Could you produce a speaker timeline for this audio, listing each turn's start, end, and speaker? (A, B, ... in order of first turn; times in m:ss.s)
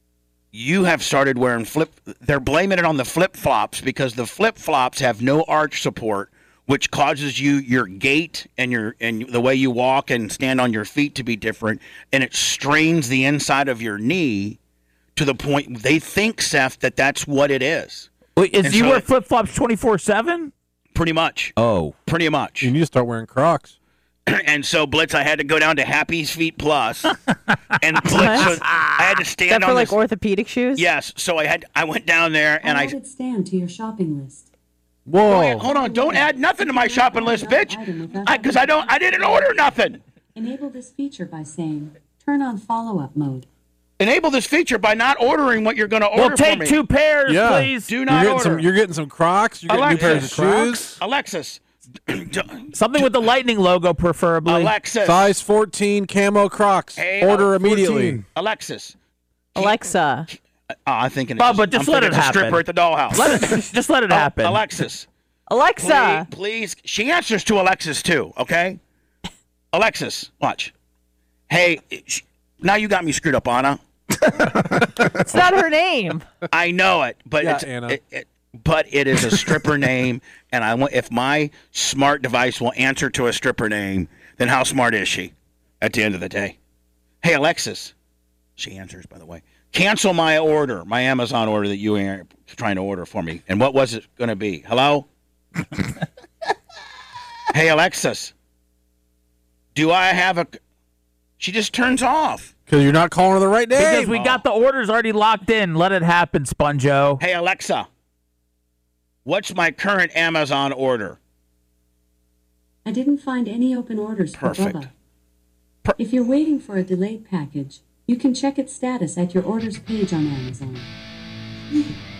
0:00.5-0:14.6 A
0:15.2-0:18.1 A
0:18.4-0:20.5 B
0:18.6-0:19.0 A
0:21.0-0:21.6 A
0:21.6-0:22.0 B
0:22.1-0:22.7 A
0:22.6-0:23.7 C
0:24.3-0:27.2 A
0:27.8-0:30.0 A
0:28.1-0:28.6 D
0:28.1-0:28.8 B
0:29.5-0:30.9 D
0:30.8-0:33.0 A
0:32.6-0:34.5 E
0:35.1-0:35.7 C
0:35.3-0:40.0 A
0:35.5-0:39.5 E
0:40.4-0:43.5 E
0:44.0-0:46.8 A
0:46.2-0:47.9 B
0:47.3-0:51.0 C
0:47.9-0:48.7 A
0:49.7-0:53.1 A
0:52.7-0:54.7 B
0:54.5-0:55.3 A
0:55.0-0:58.2 C
0:57.0-0:59.0 A
0:59.6-1:00.3 D
1:00.9-1:05.1 A
1:01.4-1:04.6 B
1:05.5-1:06.3 D
1:05.8-1:08.8 A
1:09.7-1:10.7 A
1:11.5-1:13.8 A
1:15.2-1:16.2 D
1:16.5-1:26.6 A
1:17.4-1:18.0 C
1:27.2-1:27.9 A
1:28.6-1:35.1 A
1:37.5-1:38.3 A
1:39.8-1:40.6 A
1:41.4-1:42.5 A
1:42.7-1:44.2 C
1:43.8-1:47.2 B
1:44.1-1:44.4 A
1:47.2-1:47.9 A
1:49.2-1:51.2 A
1:52.8-1:54.9 E
1:54.4-1:54.9 A
1:56.0-2:00.9 E